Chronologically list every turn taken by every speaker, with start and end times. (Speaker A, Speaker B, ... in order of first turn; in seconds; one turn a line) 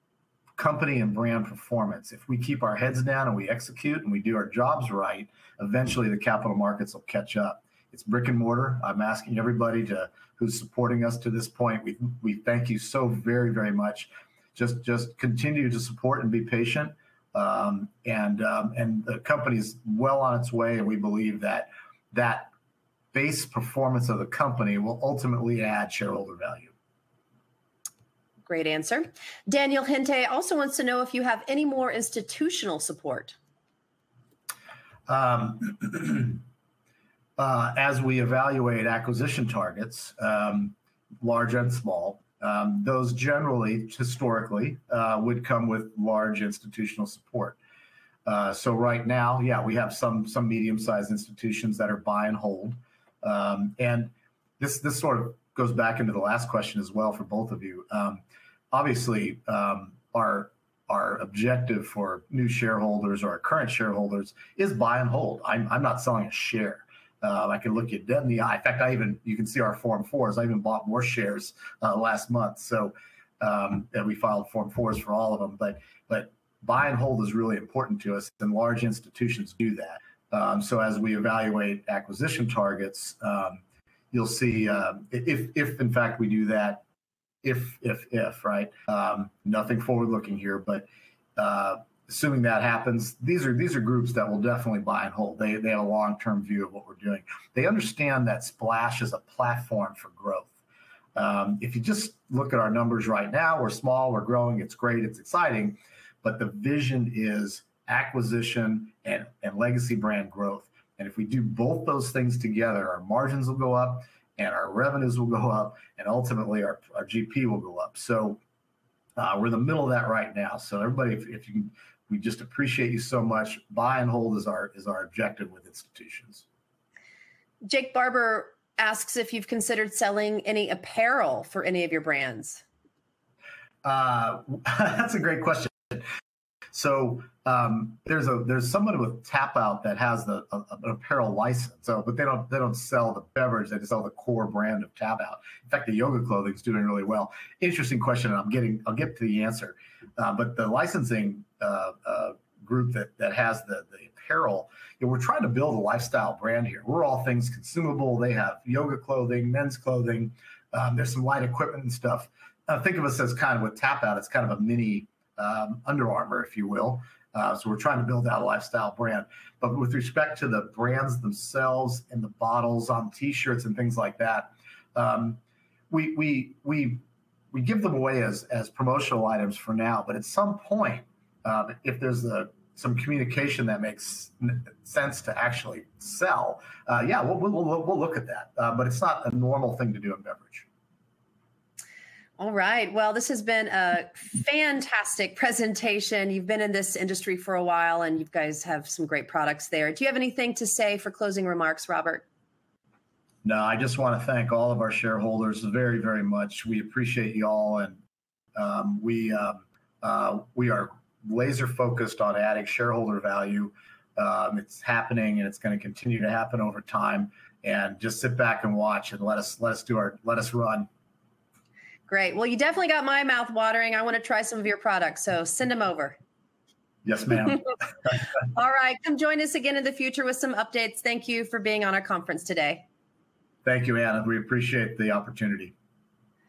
Speaker A: 0.6-22.5
Speaker A: 23.1-26.7
Speaker B: 28.4-33.4
Speaker A: 35.1-36.4
Speaker A: 37.4-47.6
Speaker A: 48.2-86.8
Speaker A: 87.4-100.5
Speaker A: 101.1-118.4
Speaker A: 119.2-126.4
Speaker B: 127.6-132.6
Speaker A: 133.8-136.1
Speaker A: 136.7-190.7
Speaker B: 192.4-202.2
Speaker A: 203.4-208.0
Speaker A: 208.6-220.9
Speaker B: 222.1-226.2
Speaker A: 227.0-227.6
Speaker B: 228.5-232.8
Speaker A: 233.6-235.7